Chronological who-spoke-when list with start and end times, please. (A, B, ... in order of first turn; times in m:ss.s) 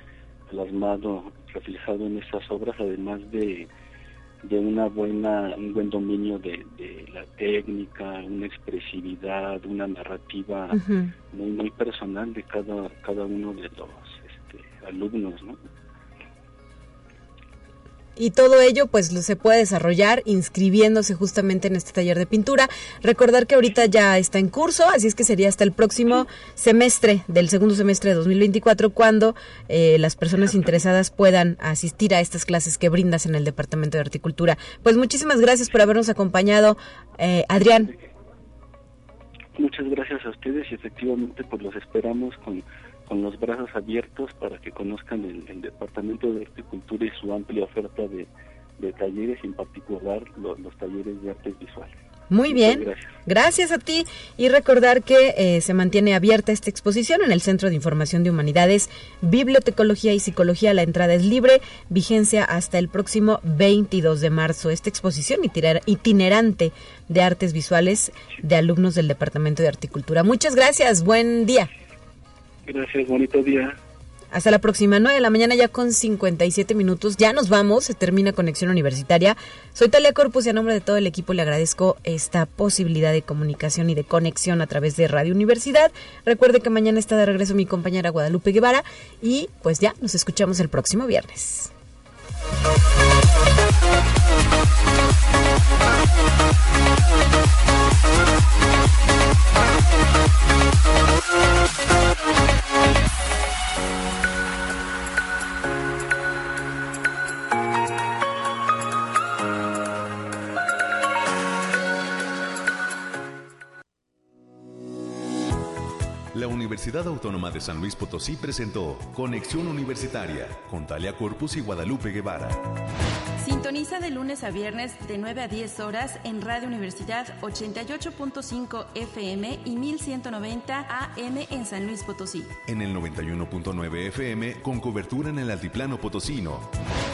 0:00.5-0:03.7 A
0:04.4-0:15.6 A
0:10.7-0:11.1 B
0:18.2-0:37.9 B
0:39.5-0:51.9 A
0:52.3-1:11.7 B
0:52.4-0:53.2 A
1:12.6-1:13.8 A
1:14.3-1:31.7 B
1:56.3-2:02.7 C
2:03.4-2:12.6 D
2:12.6-2:16.7 C